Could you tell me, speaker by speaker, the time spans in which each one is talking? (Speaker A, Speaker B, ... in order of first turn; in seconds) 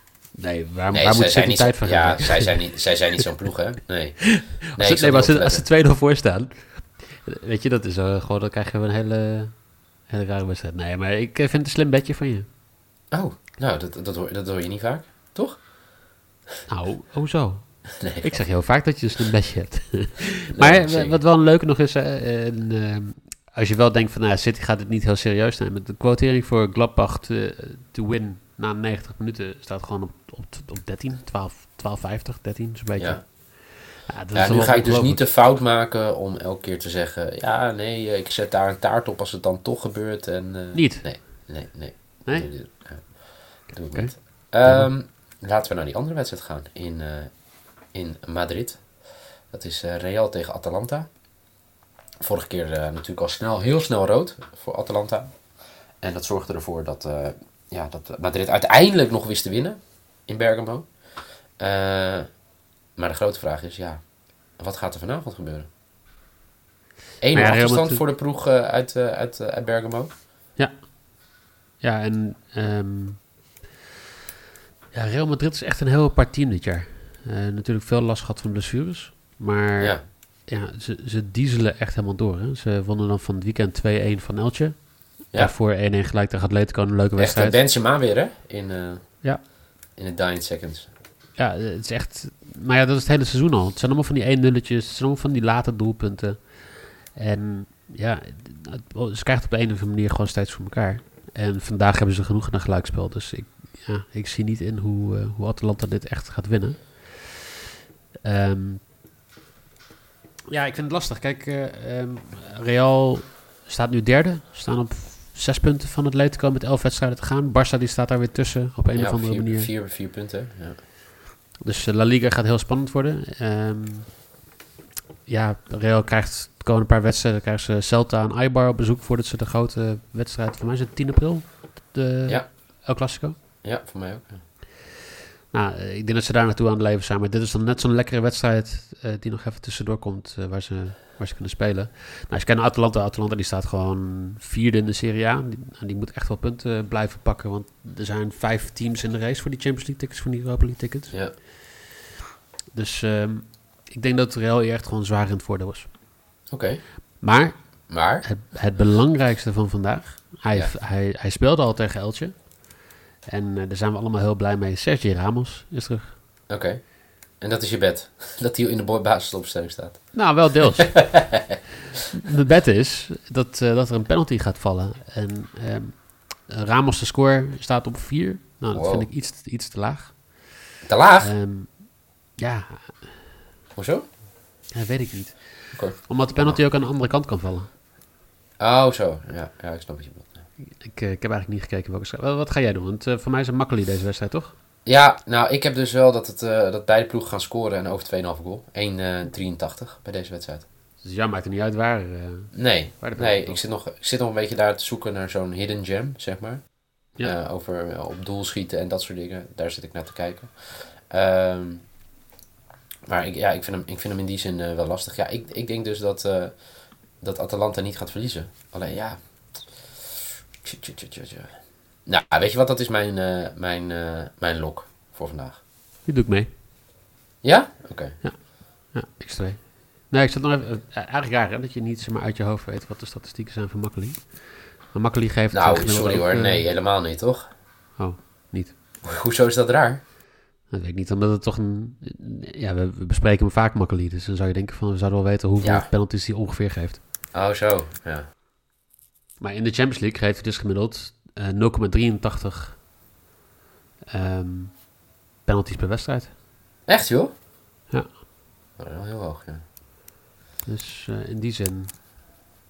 Speaker A: 0.3-3.3, 4.3-12.5, 16.7-35.3, 40.7-41.7, 42.2-43.1, 43.8-44.9, 67.3-68.1, 70.6-70.9, 71.8-73.3, 74.9-87.6, 91.4-107.5, 108.2-108.8, 110.5-119.7, 121.6-124.2, 125.3-133.4, 135.5-151.5, 152.7-155.9, 157.2-166.2, 170.1-171.6, 172.1-183.2, 184.7-187.7, 190.7-194.6, 201.0-203.6, 226.1-226.5, 228.2-236.7, 238.0-238.8, 240.7-247.0, 249.4-252.8, 254.1-254.9, 255.4-256.4, 257.9-258.2, 260.6-262.1
Speaker B: 0.9-5.7, 13.1-15.7, 18.0-18.5, 20.5-21.2, 33.0-33.2, 34.3-48.9, 49.5-51.1, 52.2-55.4, 56.0-60.9, 61.6-62.3, 63.0-64.0, 64.6-65.7, 67.2-70.1, 79.8-80.0, 87.2-89.4, 90.0-90.9, 118.9-120.8, 133.6-134.4, 151.1-151.3, 156.5-156.8, 157.9-158.3, 166.5-170.7, 178.7-179.1, 180.8-181.3, 183.8-184.1, 185.7-186.6, 188.6-190.4, 194.8-200.7, 202.5-211.9, 213.1-216.6, 217.2-219.8, 220.6-225.6, 227.4-228.2, 235.5-237.5, 239.0-240.0, 245.6-245.9, 247.3-248.3, 256.9-257.3, 258.8-259.6